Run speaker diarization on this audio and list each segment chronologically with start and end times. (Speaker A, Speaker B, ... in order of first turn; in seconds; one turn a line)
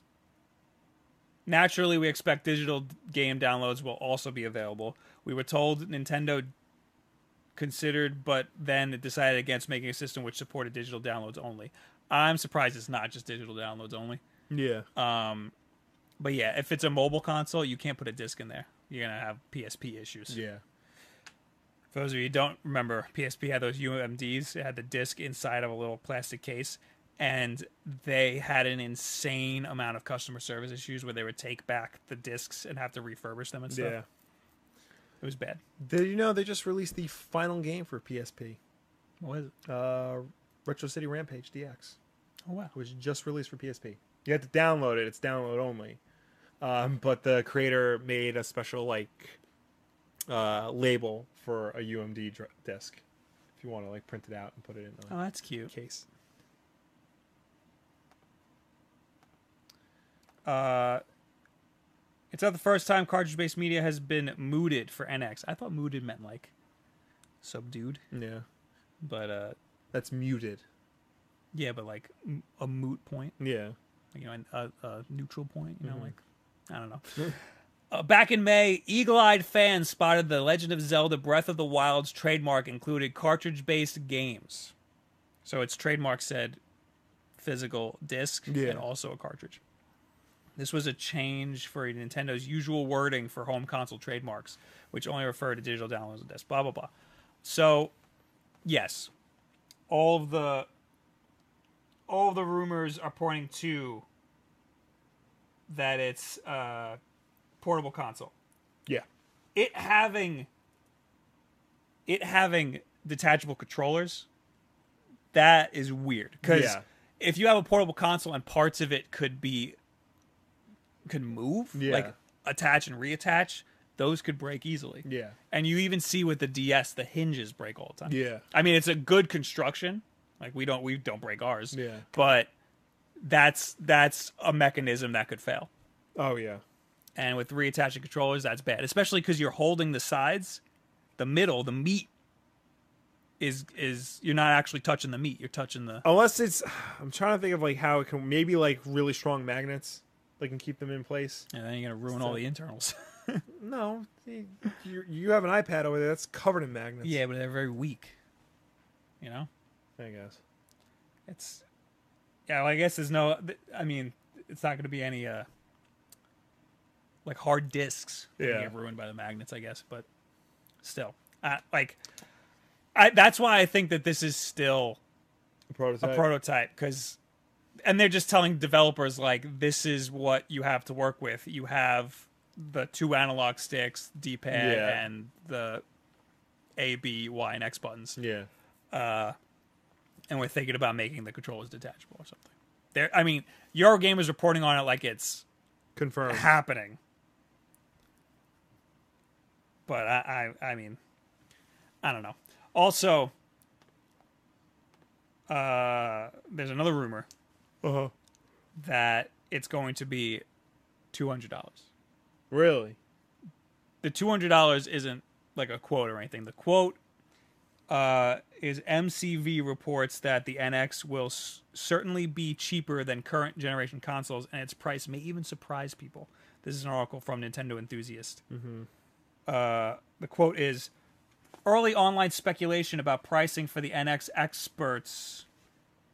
Speaker A: 1.5-6.5
Speaker A: 7.6-14.2
Speaker B: 14.5-14.9
Speaker A: 15.0-15.5
Speaker A: 16.2-20.4
Speaker B: 20.3-20.6
Speaker A: 21.9-34.0
Speaker B: 33.7-34.0
Speaker A: 35.2-35.6
Speaker B: 35.8-38.6
Speaker A: 39.2-39.5
Speaker B: 39.7-42.0
Speaker A: 42.5-42.7
Speaker B: 42.7-46.0
Speaker B: 46.6-49.4
Speaker B: 50.3-53.0
Speaker B: 53.6-55.1
Speaker A: 55.1-55.7
Speaker B: 55.7-56.1
Speaker A: 60.4-61.0
Speaker A: 62.3-66.5
Speaker A: 67.4-68.0
Speaker B: 68.1-68.4
Speaker A: 69.0-69.6
Speaker B: 69.9-70.6
Speaker A: 71.5-73.4
Speaker B: 73.4-73.8
Speaker A: 74.1-76.2
Speaker B: 75.8-76.1
Speaker A: 76.7-77.3
Speaker A: 77.9-84.7
Speaker A: 85.4-86.6
Speaker A: 87.4-89.6
Speaker B: 88.5-88.8
Speaker A: 90.6-96.9
Speaker A: 97.4-97.9
Speaker A: 98.7-99.1
Speaker A: 99.9-100.7
Speaker A: 102.1-104.0
Speaker A: 105.7-107.0
Speaker A: 107.6-108.3
Speaker A: 109.5-110.5
Speaker A: 112.1-114.3
Speaker A: 115.3-119.8
Speaker B: 116.4-116.8
Speaker A: 121.1-132.5
Speaker B: 121.8-122.1
Speaker B: 125.0-125.4
Speaker B: 128.1-128.4
Speaker B: 131.7-132.0
Speaker A: 133.2-135.7
Speaker B: 136.2-136.6
Speaker A: 137.2-140.6
Speaker A: 141.2-142.1
Speaker A: 143.4-146.1
Speaker B: 146.0-151.5
Speaker A: 151.5-153.4
Speaker B: 152.1-152.4
Speaker B: 153.5-157.2
Speaker A: 157.0-158.2
Speaker A: 159.2-159.5
Speaker B: 160.0-160.4
Speaker A: 161.3-161.6
Speaker A: 162.5-165.5
Speaker A: 167.2-170.1
Speaker B: 168.4-168.7
Speaker A: 170.8-172.0
Speaker A: 172.9-175.0
Speaker B: 175.7-176.3
Speaker A: 176.0-177.2
Speaker A: 177.8-185.8
Speaker B: 184.5-185.0
Speaker A: 186.8-188.2
Speaker B: 188.2-188.5
Speaker A: 188.9-189.4
Speaker A: 190.3-195.4
Speaker B: 196.0-196.5
Speaker A: 196.2-197.0
Speaker A: 199.9-201.0
Speaker A: 202.0-203.3
Speaker A: 205.5-207.3
Speaker B: 207.8-208.1
Speaker A: 208.8-210.4
Speaker A: 211.1-211.9
Speaker B: 212.5-213.0
Speaker A: 214.0-217.0
Speaker A: 217.9-228.4
Speaker B: 228.5-228.9
Speaker A: 229.5-230.9
Speaker A: 231.7-235.5